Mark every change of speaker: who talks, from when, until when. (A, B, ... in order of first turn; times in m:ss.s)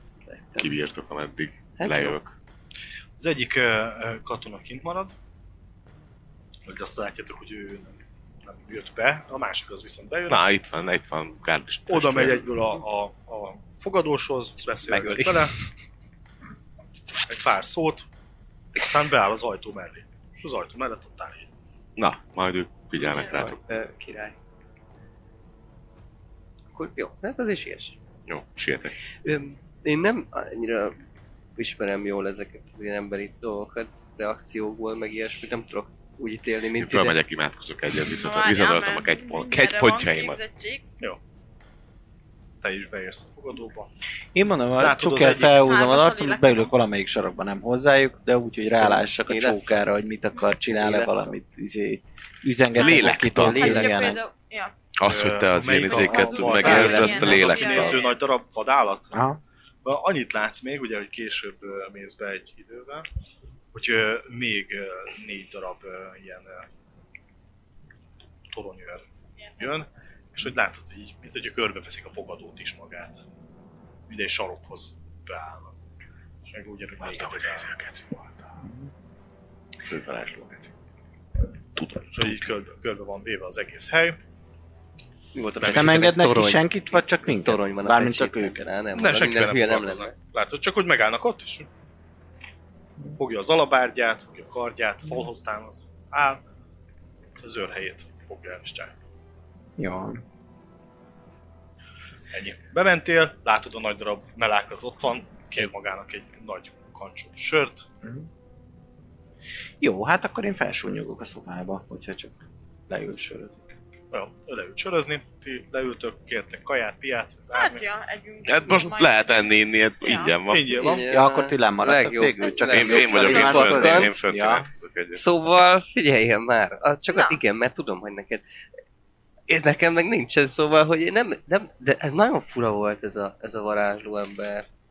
0:00.3-0:00.7 A
0:00.6-0:02.3 B
0:01.8-0:02.2 A
0:03.2-0:05.2 C
0:06.6-0:10.5 C
0:10.3-0:12.5 B
0:11.9-0:15.6 C
0:14.9-0:15.6 A
0:17.3-0:18.1 C
0:18.8-0:21.5 C
0:22.0-0:23.6 B
0:23.3-0:24.4 A
0:26.7-0:28.0 A
0:28.3-0:29.0 B
0:29.2-0:31.0 A
0:31.6-0:37.2 A
0:36.8-0:40.4 B
0:38.0-0:40.8 D
0:42.6-0:43.9 C
0:44.4-0:54.2 E
0:44.8-0:45.7 C
0:45.5-0:46.7 D
0:48.7-0:49.6 A
0:50.7-0:51.3 A
0:52.8-0:53.8 B
0:52.8-0:54.8 D
0:53.4-0:53.9 A
0:55.0-0:57.9 B
0:55.0-0:59.1 C
0:55.8-0:58.2 D
0:56.3-0:58.0 A
0:59.1-0:59.4 E
0:59.8-1:03.1 C
1:03.7-1:06.7 C
1:08.5-1:09.0 C
1:09.4-1:09.7 D
1:09.6-1:13.2 C
1:14.1-1:15.7 C
1:16.5-1:17.7 C
1:17.0-1:18.3 B
1:19.8-1:20.7 B
1:21.8-1:22.5 B
1:22.2-1:24.2 C
1:25.4-1:30.2 A
1:25.6-1:26.2 C
1:25.6-1:28.6 E
1:29.0-1:31.7 C
1:33.2-1:36.4 C
1:37.4-1:39.0 C
1:39.8-1:40.2 E
1:42.3-1:47.9 C
1:49.8-1:53.7 E
1:54.1-1:57.9 C
1:57.5-1:59.4 D
1:58.5-2:00.7 B
2:00.0-2:01.0 D
2:00.4-2:01.0 C
2:00.8-2:04.2 A
2:01.1-2:04.7 E
2:02.4-2:03.6 D
2:02.7-2:05.2 B
2:05.1-2:08.4 A
2:07.1-2:07.4 D
2:09.5-2:14.7 A